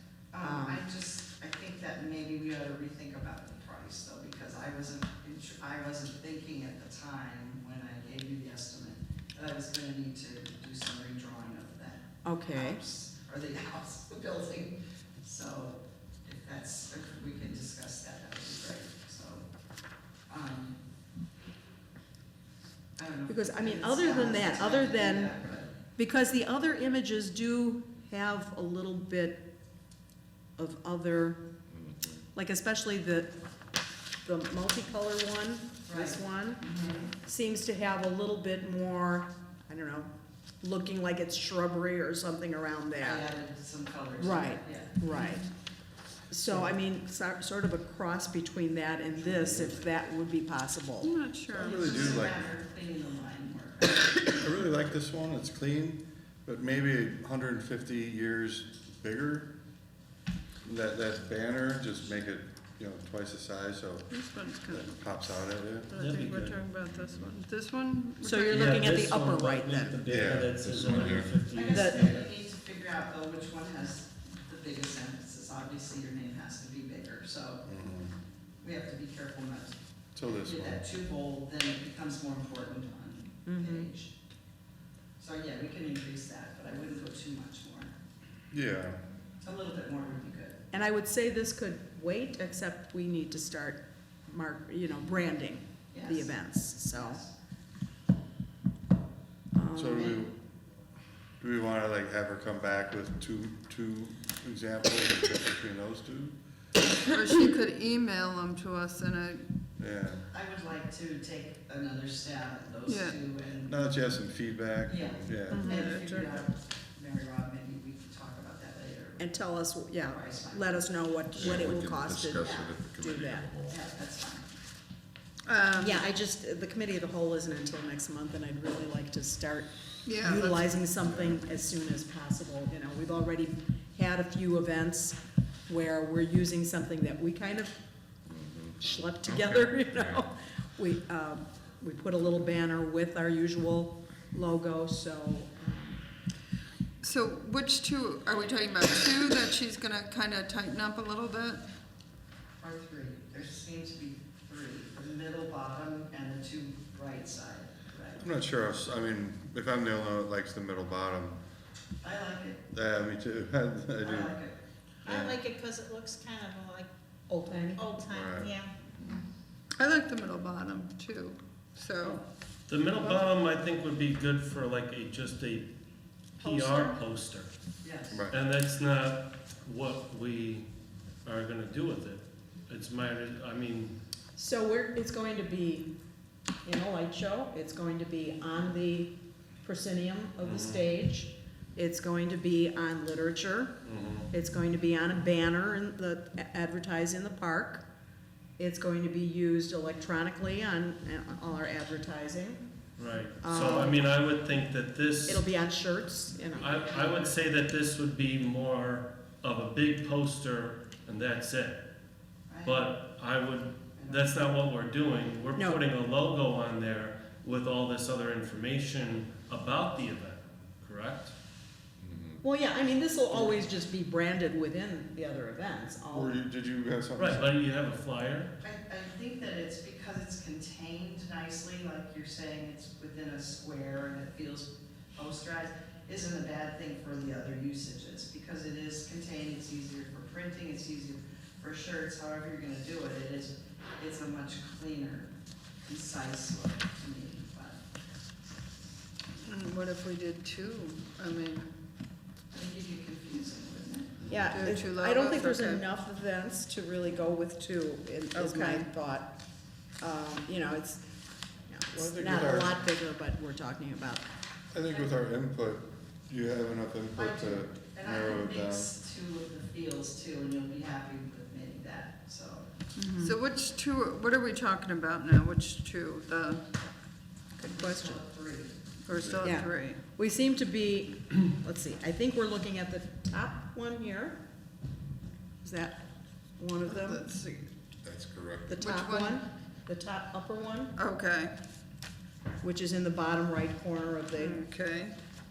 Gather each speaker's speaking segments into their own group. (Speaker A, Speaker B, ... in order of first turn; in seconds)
Speaker A: 0.3-19.4, 20.3-20.8, 23.0-25.7, 35.9-37.1, 43.0-45.4, 51.7-54.4, 71.5-77.7, 78.6-84.1, 85.2-87.9, 89.4-90.6, 95.9-97.3, 110.3-113.9, 114.8-119.4, 119.9-120.8, 122.4-122.7, 123.7-124.5, 152.6-158.2, 162.0-162.6, 164.0-164.6, 177.8-178.2, 206.7-207.3, 212.5-212.9, 213.9-214.4, 228.6-245.3, 245.8-247.8, 252.5-254.2, 267.1-272.7, 277.7-278.7
Speaker B: 0.4-0.8, 12.2-12.8, 23.3-25.3, 26.0-29.5, 30.6-31.4, 32.3-33.3, 34.2-36.6, 37.2-40.1, 40.6-43.3, 44.2-45.5, 46.3-51.1, 68.2-70.0, 71.7-72.2, 83.5-83.9, 90.7-97.2, 99.5-100.3, 119.2-123.5, 125.8-137.7, 138.8-146.0, 167.3-168.0, 176.4-176.9, 184.3-185.9, 186.6-193.8, 194.3-197.8, 198.6-202.6, 203.4-204.0, 205.3-206.9, 215.6-215.8, 222.4-226.3, 254.2-259.4, 260.0-261.1, 261.7-264.3, 273.0-273.3, 277.6-278.2, 279.4-284.4, 285.6-286.0, 286.6-287.2, 288.7-290.9, 292.6-294.7
Speaker C: 51.0-51.9, 64.1-68.8, 107.0-109.4, 112.8-113.2, 115.5-116.5, 125.5-126.0, 130.0-130.7, 147.0-151.6, 169.8-172.2, 249.4-251.7, 254.5-255.8, 258.3-258.9, 273.1-276.6, 279.1-280.0, 286.8-287.7, 288.7-289.4, 290.9-291.5, 294.3-295.1
Speaker D: 51.5-52.5, 54.3-59.5, 60.6-66.6, 70.0-71.3, 77.7-78.1, 80.2-80.8, 88.5-89.0, 99.7-100.3, 101.4-106.3, 109.8-110.2, 113.7-115.7, 158.2-161.4, 162.7-164.4, 165.0-165.4, 168.1-168.6, 226.1-227.5, 261.9-262.8, 264.7-268.9
Speaker E: 66.0-66.5, 68.4-72.2, 172.7-175.7, 176.4-177.5, 178.3-180.7, 181.2-183.9, 190.4-190.8, 193.8-194.3, 203.0-205.5, 206.5-211.8, 212.6-221.3, 227.2-228.5
Speaker F: 70.9-71.3, 121.3-123.8, 138.3-140.2
Speaker G: 165.1-166.9, 167.8-168.7